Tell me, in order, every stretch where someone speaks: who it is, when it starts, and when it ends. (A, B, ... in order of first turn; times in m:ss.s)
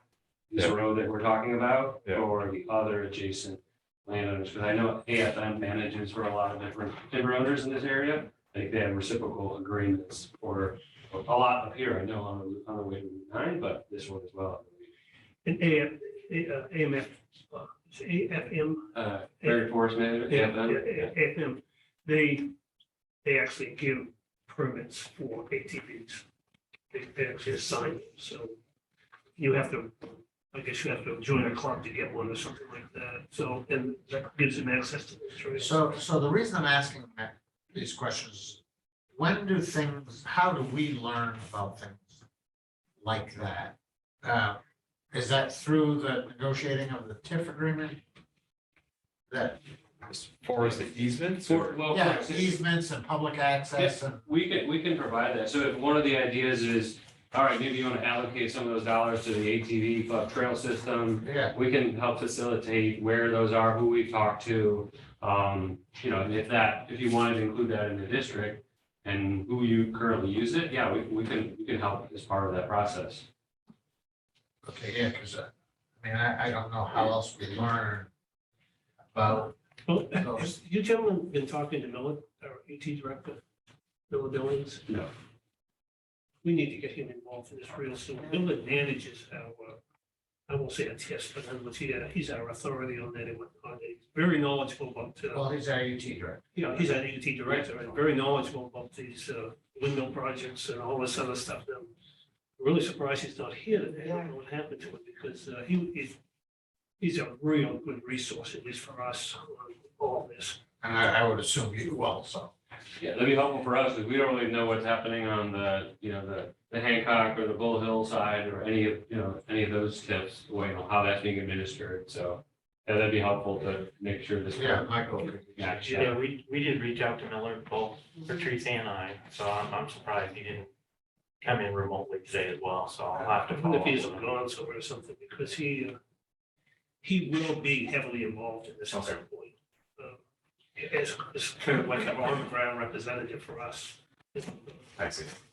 0:00.5-0:14.9 A
0:15.4-0:19.6 B
0:18.9-0:21.1 A
0:20.3-0:22.5 B
0:23.2-0:26.2 B
0:26.9-0:28.6 B
0:29.4-0:36.0 B
0:35.6-0:38.6 C
0:39.2-0:42.2 C
0:43.0-0:44.6 C
0:45.1-0:48.0 C
0:49.3-0:49.6 C
0:50.1-0:51.7 D
0:51.4-0:52.6 A
0:51.9-0:54.2 C
0:53.8-1:13.2 A
1:01.2-1:01.5 C
1:14.6-1:18.1 C
1:19.1-1:19.6 C
1:19.8-1:23.4 B
1:20.1-1:20.6 C
1:24.1-1:24.9 B
1:26.4-1:29.8 B
1:30.5-1:35.4 B
1:35.3-1:36.5 C
1:36.6-1:41.9 B
1:42.6-1:46.2 B
1:47.0-1:50.6 B
1:50.8-1:52.5 C
1:53.0-2:06.2 A
2:04.6-2:06.1 C
2:05.9-2:10.7 E
2:11.4-2:14.2 E
2:13.4-2:16.0 B
2:17.0-2:20.2 B
2:18.9-2:19.2 D
2:20.8-2:24.9 B
2:25.0-2:25.3 D